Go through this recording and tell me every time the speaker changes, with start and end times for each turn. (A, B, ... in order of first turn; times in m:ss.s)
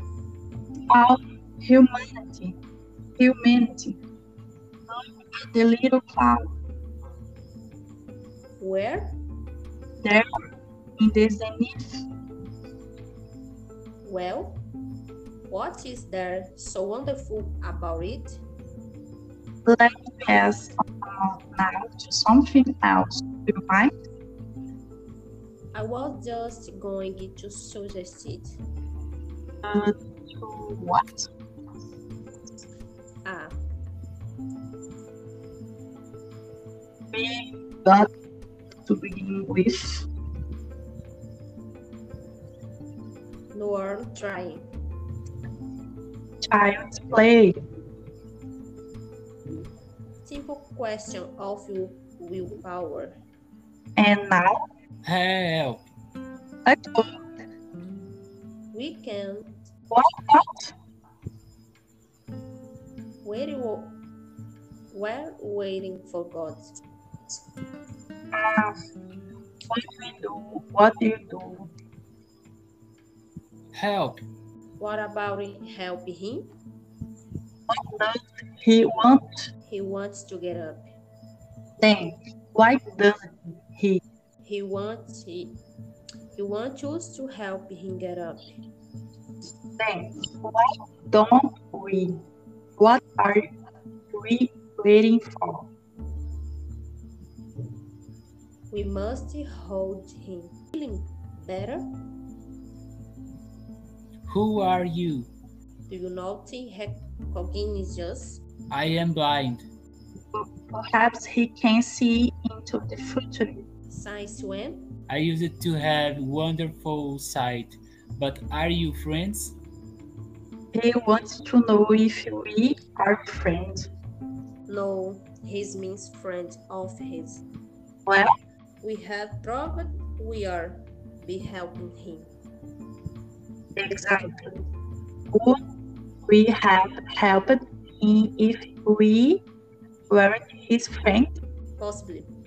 0:00.9-0:02.5 A
0:03.2-0:04.0 A
0:05.3-0:06.5 A
0:08.6-0:09.1 B
0:10.0-0:10.3 A
0:11.0-0:12.0 A
0:14.0-0:14.6 B
0:15.5-0:18.4 B
0:19.6-0:23.9 A
0:25.7-0:28.5 B
0:29.6-0:31.3 A
0:33.2-0:33.5 B
0:37.1-0:38.1 A
0:38.8-0:40.0 A
0:43.5-0:44.6 B
0:46.4-0:47.6 A
0:50.2-0:53.1 B
0:54.0-0:54.6 A
0:55.0-0:55.8 C
0:56.6-0:57.2 A
0:58.7-0:59.5 B
0:59.9-1:00.7 A
1:03.2-1:04.0 B
1:04.9-1:06.7 B
1:08.3-1:08.8 A
1:09.7-1:11.7 A
1:13.7-1:14.2 C
1:14.8-1:16.5 B
1:17.7-1:19.5 A
1:19.7-1:20.8 B
1:21.8-1:24.0 A
1:24.4-1:25.5 B
1:26.4-1:28.5 B
1:29.8-1:32.2 A
1:32.8-1:33.5 A
1:34.1-1:35.7 A
1:38.7-1:41.8 B
1:44.3-1:45.3 C
1:45.9-1:48.4 B
1:48.7-1:49.6 C
1:50.3-1:53.6 A
1:53.9-1:54.8 B
1:55.1-1:59.6 C
2:00.7-2:03.9 A
2:04.7-2:07.4 B
2:08.0-2:08.3 A
2:08.8-2:12.3 B
2:13.8-2:14.6 A
2:15.3-2:15.6 A
2:16.3-2:19.4 A
2:20.1-2:21.4 A
2:21.8-2:22.3 B